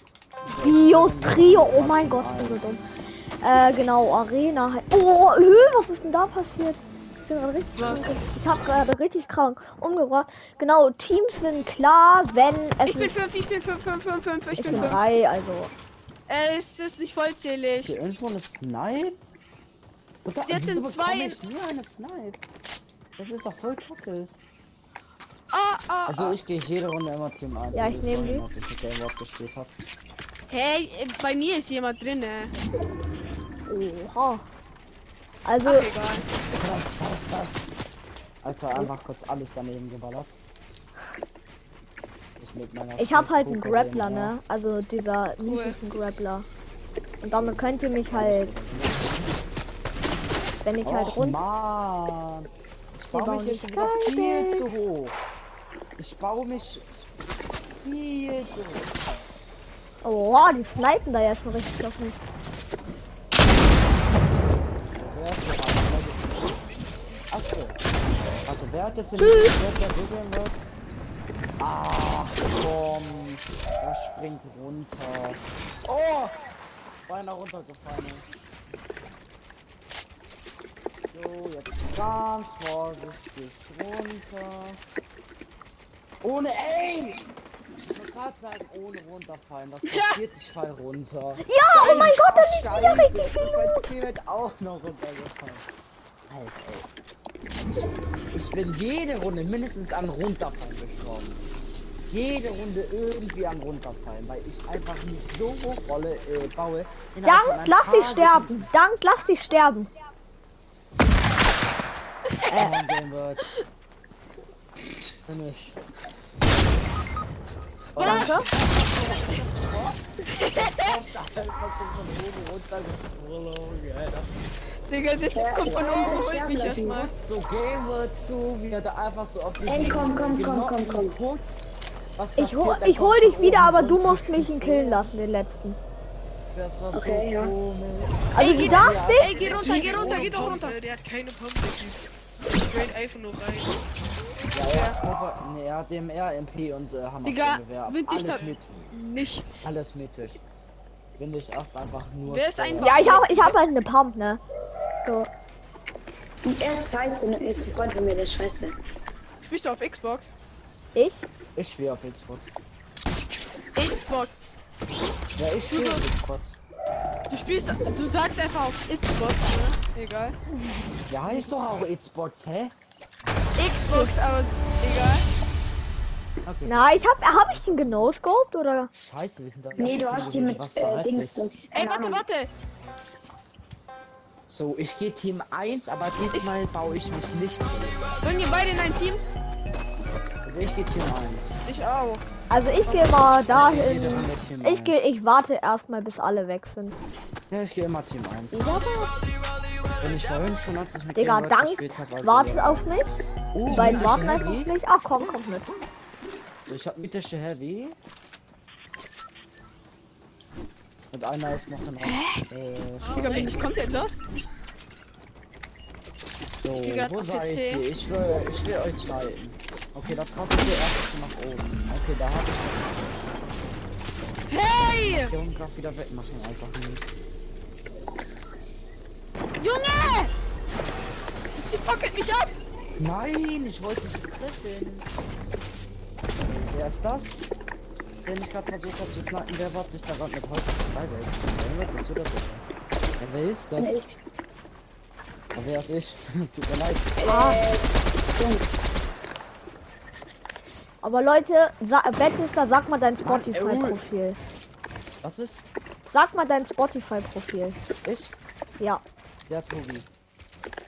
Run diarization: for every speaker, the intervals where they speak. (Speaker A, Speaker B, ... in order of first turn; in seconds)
Speaker A: 0.5-2.9, 14.5-15.2, 17.8-19.2, 20.2-22.4, 23.2-24.3, 26.1-29.7, 36.2-37.6, 38.4-40.4, 42.4-44.4, 47.2-49.3, 50.8-55.2, 56.0-56.9, 57.7-59.0, 64.8-66.7, 67.3-67.8, 68.4-70.6, 71.6-76.4, 77.1-78.2, 81.0-84.8, 86.2-87.3, 87.8-95.7, 96.3-96.9, 97.6-101.4, 102.1-108.7, 112.5-113.5, 115.2-115.8, 117.9-120.0, 120.6-124.3, 125.6-135.1, 136.5-140.6, 144.5-148.9, 149.6-150.4, 151.2-153.1, 161.6-162.5, 165.4-166.6, 171.1-172.8, 176.4-178.2, 178.9-181.5, 184.5-188.1, 190.4-191.7, 193.5-195.2, 197.5-198.9, 200.0-204.7, 206.6-208.0, 211.1-214.1, 216.4-223.1, 225.0-227.1, 233.0-235.1, 236.3-237.5, 238.2-242.7, 243.2-244.0, 245.5-247.2, 253.2-254.0, 255.2-255.7, 258.0-258.4, 259.5-260.1
Speaker B: 0.6-2.8, 3.4-13.1, 14.6-15.7, 27.7-28.4, 33.7-34.5, 35.5-35.9, 43.0-46.5, 47.2-48.5, 50.6-51.4, 53.1-54.7, 60.0-62.2, 69.2-69.6, 91.4-93.9, 107.2-109.9, 112.5-112.7, 118.0-118.5, 132.4-135.8, 138.3-139.3, 152.8-154.4, 160.9-161.2, 176.7-178.9, 192.5-197.0, 201.2-203.1, 203.7-205.7, 247.3-247.6, 251.0-254.4, 256.1-257.8
Speaker C: 12.9-15.1, 16.3-17.9, 20.4-21.4, 25.5-26.4, 30.5-32.5, 35.6-36.3, 45.5-45.8, 89.8-90.2, 118.0-118.5, 120.3-120.9, 124.9-127.1, 138.4-140.8, 144.7-145.0, 147.2-149.7, 152.2-153.6, 159.4-160.3, 163.8-164.6, 165.7-166.1, 167.3-170.4, 173.6-175.3, 181.7-182.5, 188.2-189.2, 191.7-192.2, 192.9-193.2, 203.7-204.2, 212.0-212.5, 213.1-214.2, 216.8-217.8, 224.5-225.3, 229.6-230.3, 231.7-232.6
Speaker D: 125.3-127.1, 129.7-131.2, 136.9-137.5, 156.4-158.8, 179.8-182.2, 243.8-244.2, 247.2-248.7
Speaker E: 139.3-143.9, 148.2-148.6, 213.0-213.9